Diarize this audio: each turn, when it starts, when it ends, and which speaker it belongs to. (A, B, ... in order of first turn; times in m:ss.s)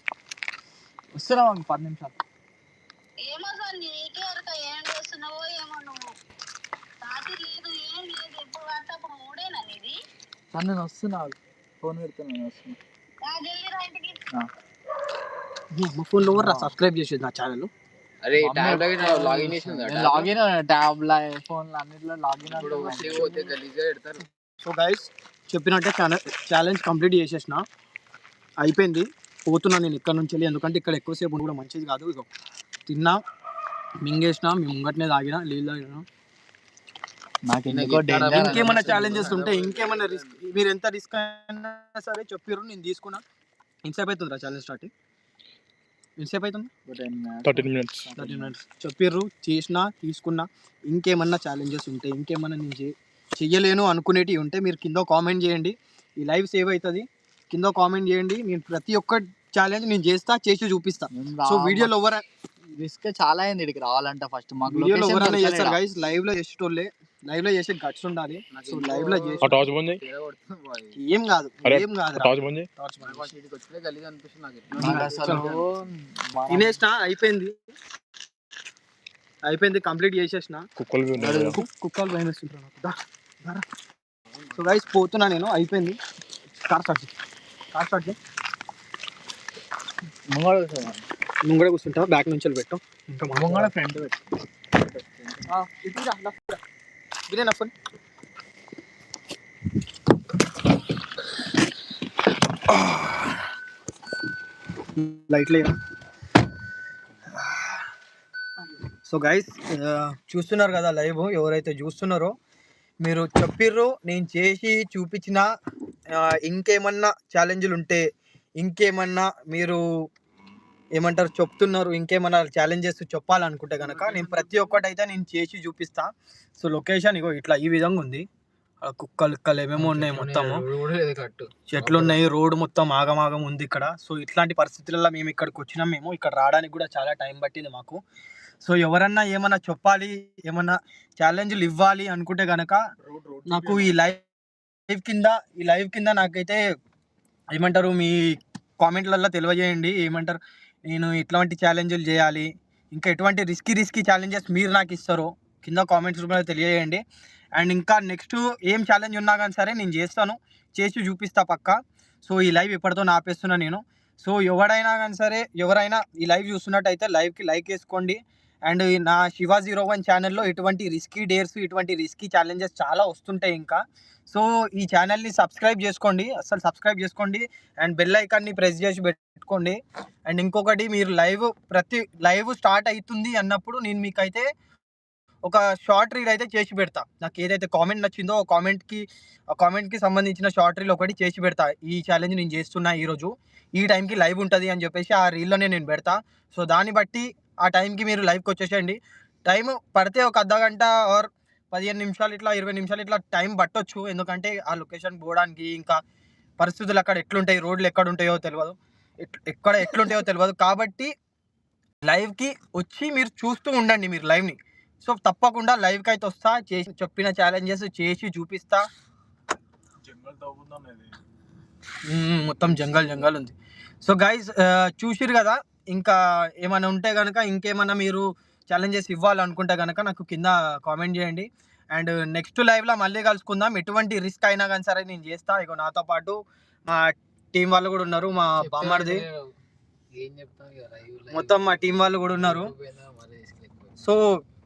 0:01.1-0:02.2 A
0:03.2-0:06.0 B
0:07.0-0:09.9 B
0:10.5-0:12.8 A
0:13.2-0:14.2 B
0:15.7-0:17.7 C
0:16.3-0:16.7 A
0:18.2-0:20.3 D
0:18.4-0:23.5 A
0:22.5-0:24.2 D
0:22.8-0:23.2 C
0:24.6-0:27.6 C
0:28.6-0:32.3 C
0:32.9-0:33.2 C
0:34.0-0:36.0 C
0:37.4-0:39.3 A
0:37.7-0:40.4 D
0:38.3-0:43.2 C
0:43.8-0:44.9 C
0:46.2-0:46.7 C
0:46.9-0:48.5 A
0:47.4-0:48.1 E
0:48.2-1:02.2 C
1:01.1-1:01.9 A
1:02.7-1:05.8 A
1:04.7-1:09.5 C
1:08.5-1:11.0 D
1:09.4-1:10.0 E
1:11.0-1:13.3 C
1:11.6-1:12.7 E
1:13.0-1:15.6 D
1:14.7-1:16.8 A
1:14.8-1:15.5 C
1:16.5-1:17.5 C
1:19.4-1:20.6 C
1:20.8-1:21.6 E
1:21.1-1:21.6 A
1:21.5-1:23.6 C
1:24.5-1:26.0 C
1:26.6-1:27.1 C
1:27.7-1:28.2 C
1:30.3-1:31.0 A
1:31.4-1:33.7 C
1:33.3-1:34.2 A
1:34.8-1:35.5 A
1:35.5-1:36.6 C
1:37.3-1:37.7 C
1:45.0-1:45.7 C
1:47.4-1:47.8 C
1:49.0-1:52.3 C
1:53.0-1:55.4 C
1:56.1-1:58.0 C
1:58.6-1:59.8 C
2:01.0-2:08.3 C
2:03.8-2:04.8 D
2:08.8-2:10.6 C
2:09.8-2:12.2 D
2:11.7-2:18.0 C
2:18.6-2:22.8 C
2:23.1-2:23.8 E
2:23.5-2:24.2 C
2:24.9-2:26.6 C
2:27.5-2:37.0 C
2:37.6-2:59.8 C
3:00.3-3:04.5 C
3:05.4-3:26.0 C
3:26.6-3:31.1 C
3:32.0-3:38.8 C
3:40.0-3:41.1 E
3:42.1-3:56.4 C
3:56.9-3:59.2 C
3:58.6-3:59.5 D
4:00.1-4:03.9 D
4:01.3-4:02.7 C
4:04.0-4:04.4 C